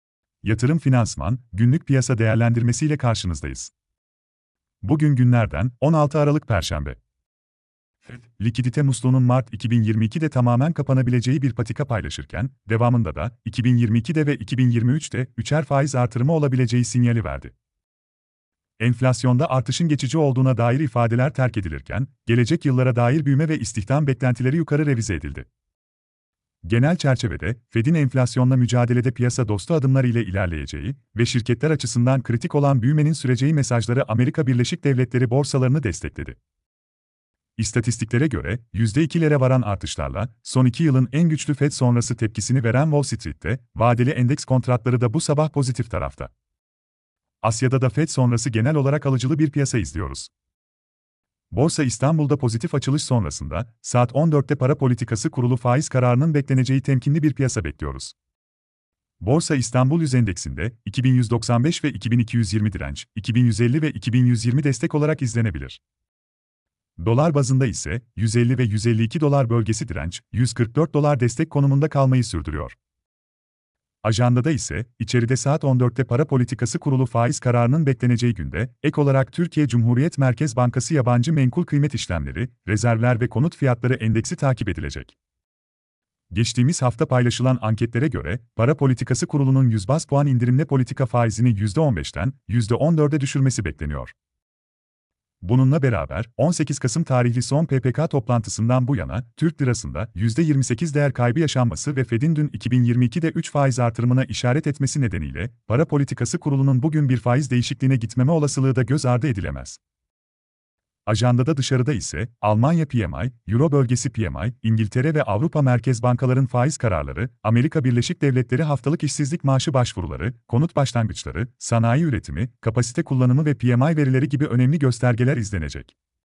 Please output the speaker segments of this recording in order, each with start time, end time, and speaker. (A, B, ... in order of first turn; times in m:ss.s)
0:00.4-0:03.7 A
0:04.8-0:07.0 A
0:08.1-0:17.5 A
0:18.8-0:25.5 A
0:26.6-0:36.4 A
0:37.6-0:46.3 A
0:47.4-0:50.3 A
0:51.5-0:58.1 A
0:59.2-1:05.8 A
1:07.0-1:12.8 A
1:14.0-1:25.2 A
1:26.3-1:34.1 A
1:35.4-1:49.8 A
1:51.0-2:05.9 A